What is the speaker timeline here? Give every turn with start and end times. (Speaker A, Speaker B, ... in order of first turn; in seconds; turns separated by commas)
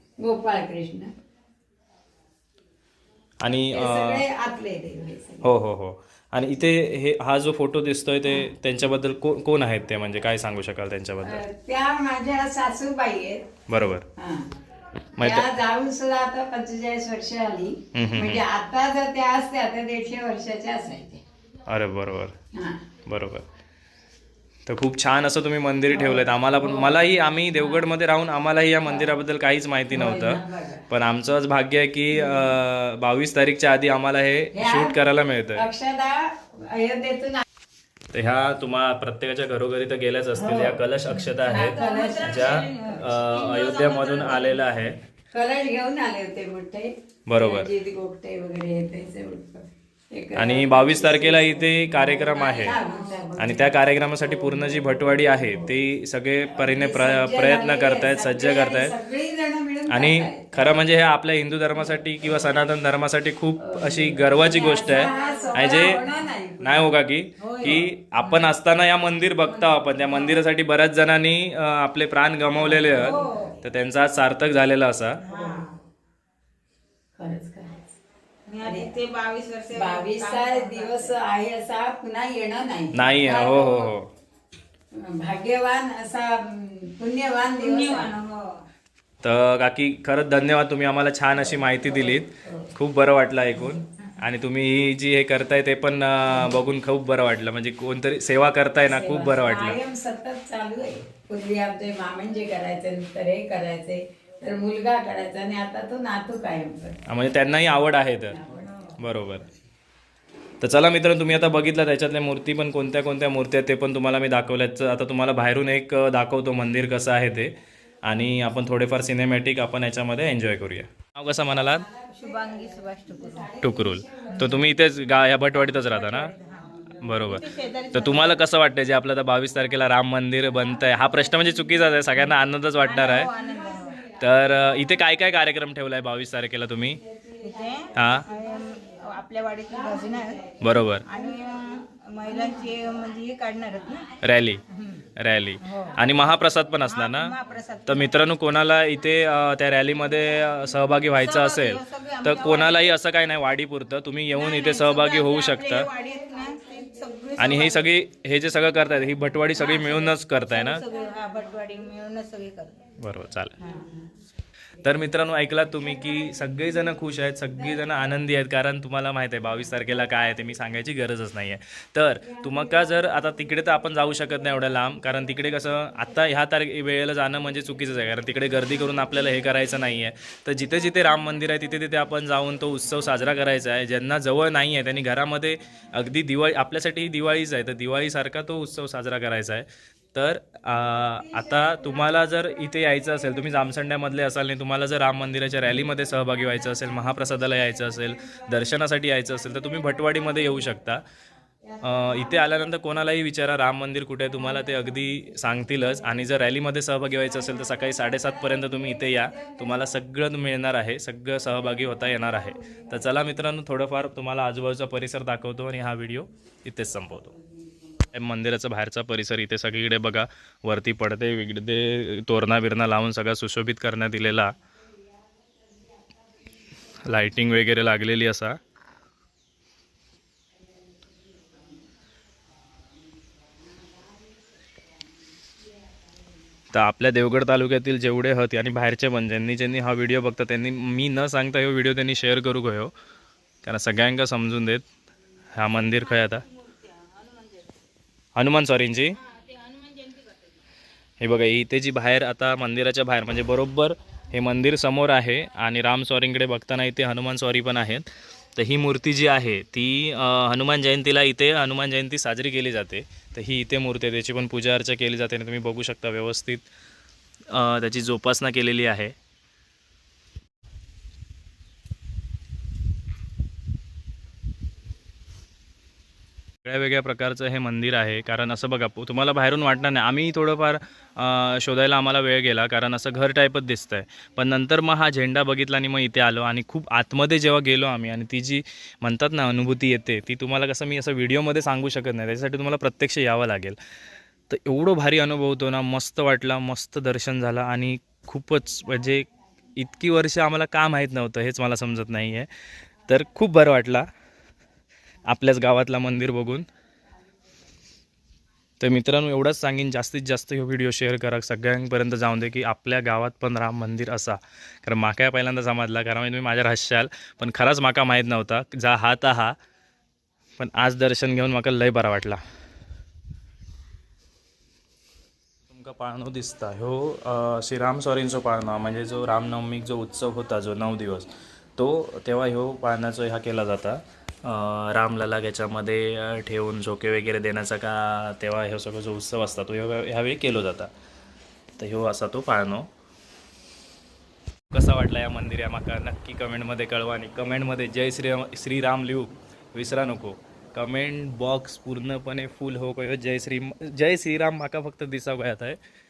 Speaker A: 0.2-1.1, Speaker B: 3.4-4.2, Speaker A: 3.5-5.5, Speaker B: 5.4-11.4, Speaker A: 11.2-13.5, Speaker B: 13.7-14.1, Speaker A: 14.2-14.5, Speaker B: 15.2-15.5, Speaker A: 15.2-21.2, Speaker B: 17.9-18.4, Speaker B: 21.7-22.4, Speaker A: 22.5-22.9, Speaker B: 23.1-23.4, Speaker B: 24.7-35.6, Speaker A: 25.9-27.9, Speaker A: 28.9-29.2, Speaker A: 29.9-30.9, Speaker A: 32.1-32.6, Speaker A: 34.5-35.0, Speaker A: 35.6-37.4, Speaker B: 38.1-45.0, Speaker A: 40.4-40.9, Speaker A: 41.4-43.0, Speaker C: 41.5-44.6, Speaker A: 45.3-55.7, Speaker B: 47.3-47.7, Speaker B: 50.4-52.8, Speaker C: 52.5-53.4, Speaker B: 53.4-58.9, Speaker A: 56.5-60.7, Speaker B: 59.9-66.0, Speaker A: 63.6-66.9, Speaker C: 64.8-66.0, Speaker B: 66.6-75.2, Speaker C: 67.4-68.5, Speaker C: 69.6-70.4, Speaker A: 72.6-73.3, Speaker C: 72.9-73.5, Speaker C: 75.2-75.8, Speaker A: 75.3-75.7, Speaker A: 77.2-78.0, Speaker C: 78.5-81.1, Speaker A: 78.6-78.9, Speaker A: 79.7-83.9, Speaker B: 82.9-84.1, Speaker A: 85.0-88.2, Speaker C: 87.6-88.6, Speaker B: 89.2-99.8, Speaker A: 91.5-92.7, Speaker A: 98.8-107.0, Speaker B: 107.1-108.4, Speaker A: 108.3-108.9, Speaker B: 109.0-109.5, Speaker B: 110.6-117.5, Speaker B: 118.1-121.9, Speaker C: 122.1-123.6, Speaker B: 123.6-126.3, Speaker A: 123.7-124.6, Speaker C: 125.7-128.4, Speaker B: 127.0-133.3, Speaker C: 132.8-134.1, Speaker B: 134.1-137.0, Speaker C: 137.4-144.1, Speaker B: 137.9-138.3, Speaker B: 140.6-141.1, Speaker B: 144.2-144.6, Speaker C: 144.7-145.1, Speaker B: 145.2-147.3, Speaker C: 145.6-146.1, Speaker C: 146.8-148.2, Speaker B: 147.9-155.9, Speaker C: 151.2-152.9, Speaker C: 154.3-157.9, Speaker B: 157.4-160.8, Speaker C: 159.6-162.8, Speaker B: 163.0-163.6, Speaker C: 163.6-163.9, Speaker B: 164.8-201.0, Speaker B: 201.8-217.3, Speaker B: 218.1-224.5, Speaker B: 227.1-228.6, Speaker B: 236.7-242.9, Speaker B: 243.6-244.8, Speaker B: 245.6-246.4, Speaker C: 246.7-247.7, Speaker B: 248.4-249.2, Speaker C: 249.3-250.3, Speaker B: 251.2-266.7, Speaker B: 267.5-269.1, Speaker B: 276.6-293.8, Speaker B: 294.5-302.5, Speaker B: 303.1-304.1, Speaker B: 305.3-306.7, Speaker B: 308.8-319.6, Speaker B: 320.6-322.4, Speaker B: 325.7-340.9, Speaker B: 341.8-342.9, Speaker B: 344.7-355.8